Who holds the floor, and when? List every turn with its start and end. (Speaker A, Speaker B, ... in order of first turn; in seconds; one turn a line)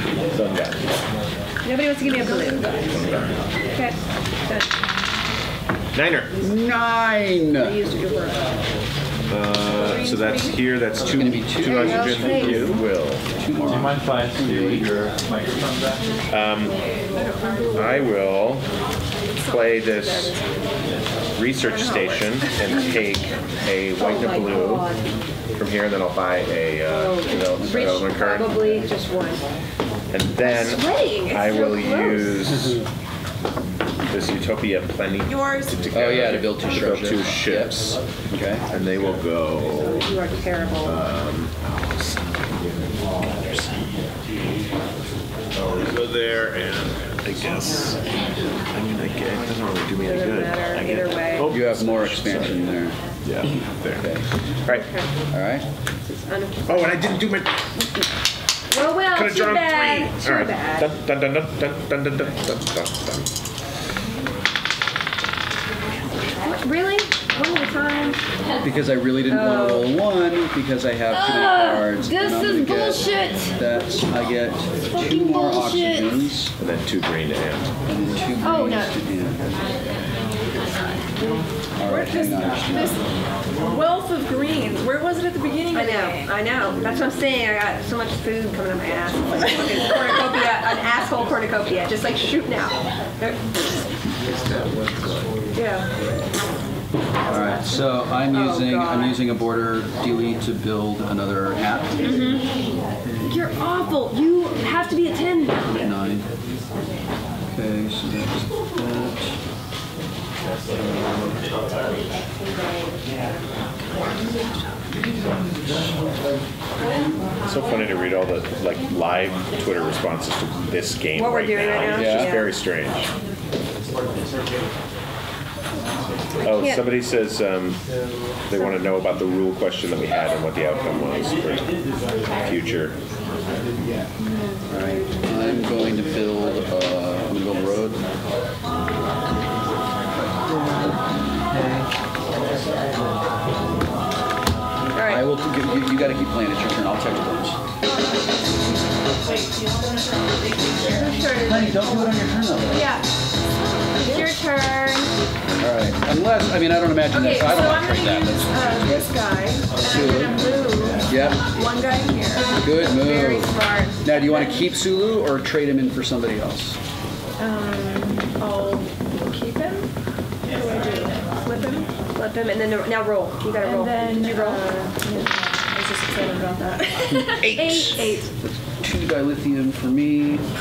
Speaker A: 0.3-0.8
Speaker B: 1.6-2.8
Speaker A: 2.9-3.4
Speaker B: 3.7-4.7
Speaker A: 5.9-6.3
Speaker C: 6.4-7.8
Speaker B: 7.6-8.4
Speaker A: 9.3-13.2
Speaker D: 9.8-10.5
Speaker C: 11.1-14.9
Speaker B: 11.6-12.8
Speaker E: 13.7-16.0
Speaker A: 16.3-16.8
Speaker D: 17.1-17.8
Speaker A: 17.7-18.7
Speaker A: 19.4-20.4
Speaker D: 19.4-20.4
Speaker A: 21.4-24.9
Speaker D: 21.7-22.9
Speaker B: 24.0-25.1
Speaker A: 25.6-28.6
Speaker B: 26.9-29.4
Speaker C: 27.6-28.0
Speaker A: 30.1-32.8
Speaker B: 30.4-32.4
Speaker A: 34.1-38.0
Speaker D: 35.2-35.8
Speaker C: 35.9-38.6
Speaker A: 38.7-40.0
Speaker B: 39.9-41.0
Speaker A: 40.8-44.0
Speaker A: 45.5-48.0
Speaker A: 48.7-52.6
Speaker B: 50.0-51.5
Speaker C: 51.5-53.0
Speaker A: 53.2-54.1
Speaker C: 53.9-54.2
Speaker B: 54.7-55.1
Speaker C: 55.3-55.6
Speaker B: 56.0-56.8
Speaker A: 56.7-57.7
Speaker B: 58.7-60.9
Speaker A: 59.1-63.3
Speaker B: 66.4-68.2
Speaker C: 68.6-76.5
Speaker B: 69.3-69.9
Speaker B: 71.1-73.5
Speaker B: 74.9-76.3
Speaker A: 76.6-77.7
Speaker C: 77.9-79.4
Speaker B: 78.4-79.0
Speaker C: 81.8-83.0
Speaker D: 81.8-83.0
Speaker D: 83.6-86.3
Speaker B: 85.7-93.7
Speaker D: 95.5-95.9
Speaker C: 97.3-102.3
Speaker B: 98.3-99.2
Speaker B: 102.0-102.5
Speaker C: 103.0-103.5
Speaker B: 103.3-105.7
Speaker C: 105.7-106.3
Speaker C: 107.5-109.3
Speaker A: 117.5-123.1
Speaker B: 121.2-122.5
Speaker C: 121.9-122.4
Speaker A: 126.4-127.8
Speaker B: 126.6-126.8
Speaker A: 128.5-131.7
Speaker A: 132.3-133.0
Speaker B: 134.3-135.1
Speaker C: 134.7-138.0
Speaker C: 140.4-141.9
Speaker B: 144.9-145.2
Speaker C: 145.0-147.6
Speaker D: 150.7-153.1
Speaker C: 151.3-152.9
Speaker D: 154.0-155.1
Speaker C: 155.6-159.1
Speaker D: 157.1-162.6
Speaker C: 159.8-160.4
Speaker C: 161.1-161.4
Speaker C: 162.6-166.8
Speaker B: 162.8-164.0
Speaker D: 164.1-164.6
Speaker D: 167.4-169.9
Speaker D: 170.5-171.9
Speaker B: 172.2-174.9
Speaker D: 173.6-177.3
Speaker B: 177.0-178.3
Speaker A: 177.4-178.2
Speaker C: 178.4-180.4